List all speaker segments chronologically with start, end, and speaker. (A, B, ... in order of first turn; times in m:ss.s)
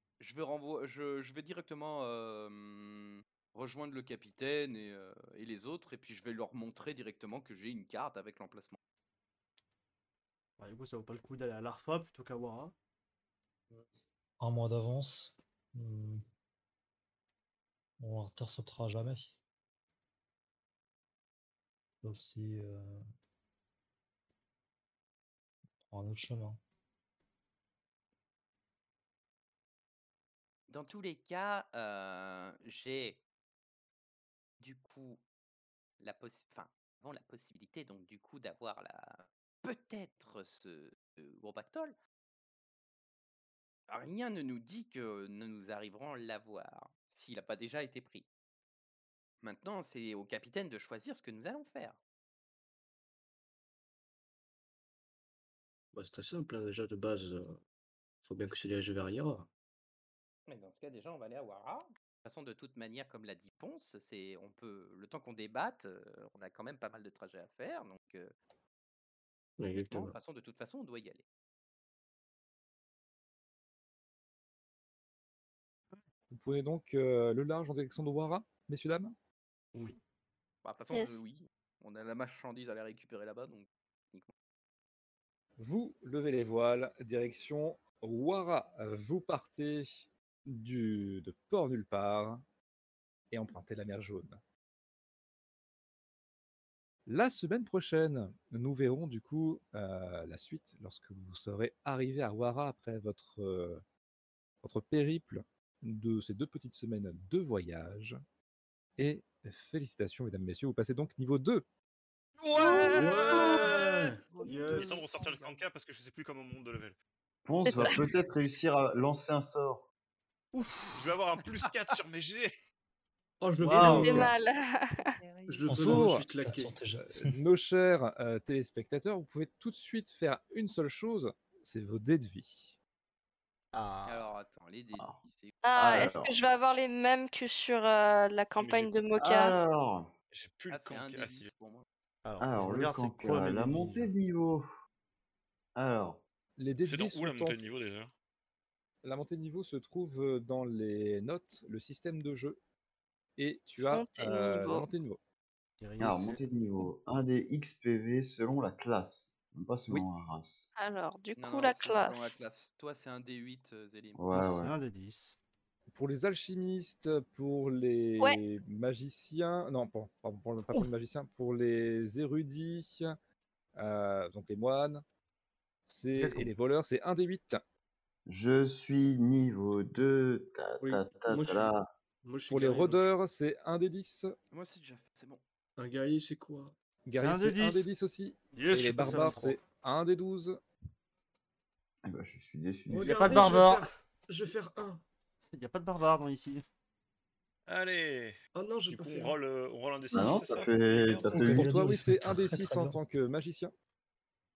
0:00.2-0:08.8 A
0:10.6-0:12.8 B
0:14.4-0:16.2 C
0:18.0-0:19.4 C
0:22.0-0:23.0 C
0:25.8-0:26.6 C
0:30.7-0:33.2 D
0:34.6-0:35.2 D
0:36.0-0:42.0 D
0:43.9-0:48.3 D
0:49.4-0:52.0 D
0:55.9-0:57.6 E
0:58.2-0:59.5 E
1:00.5-1:08.3 D
1:09.6-1:10.2 E
1:09.9-1:11.2 D
1:16.3-1:19.2 F
1:20.7-1:21.4 D
1:20.8-1:21.2 A
1:20.9-1:21.2 G
1:21.8-1:23.6 A
1:25.6-1:32.4 F
1:33.3-1:34.4 F
1:37.1-1:43.8 F
1:44.6-1:48.2 F
1:49.0-1:51.6 F
1:52.4-1:53.9 H
1:52.6-1:54.2 E
1:53.3-1:53.8 A
1:54.3-1:55.6 A
1:54.4-1:55.3 B
1:54.7-1:57.0 H
1:57.4-1:59.8 I
2:00.5-2:01.1 B
2:00.9-2:02.5 H
2:03.4-2:04.3 E
2:03.6-2:04.3 B
2:03.8-2:05.1 G
2:05.2-2:05.9 D
2:05.5-2:06.8 E
2:05.7-2:07.4 C
2:05.8-2:06.3 F
2:07.0-2:12.8 F
2:13.7-2:14.3 B
2:14.2-2:14.6 A
2:14.3-2:15.6 D
2:15.0-2:16.4 I
2:15.6-2:19.6 G
2:18.6-2:18.9 H
2:19.2-2:20.1 I
2:20.3-2:21.5 H
2:20.8-2:21.5 A
2:20.9-2:21.8 D
2:22.2-2:24.1 B
2:22.4-2:24.7 I
2:25.8-2:26.2 I
2:26.6-2:27.6 F
2:26.8-2:28.1 H
2:29.0-2:32.6 F
2:33.4-2:35.2 F
2:33.8-2:34.9 G
2:35.8-2:36.4 B
2:36.0-2:40.7 I
2:40.8-2:42.4 G
2:41.4-2:44.2 A
2:44.2-2:44.8 I
2:44.3-2:45.4 B
2:45.9-2:53.1 F
2:53.8-2:55.0 F
2:55.9-2:57.6 F
2:56.2-2:56.5 B
2:58.3-3:01.9 I
3:00.8-3:03.1 E
3:02.5-3:04.3 F
3:04.5-3:05.4 A
3:05.8-3:06.7 E
3:07.1-3:10.6 F
3:07.1-3:07.9 B
3:08.5-3:09.6 B
3:12.0-3:13.5 I
3:12.9-3:15.0 E
3:13.0-3:13.9 B
3:15.4-3:16.6 B
3:17.7-3:18.4 H
3:18.5-3:19.4 E
3:18.9-3:21.3 H
3:20.1-3:21.7 I
3:21.3-3:23.0 C
3:21.5-3:23.7 F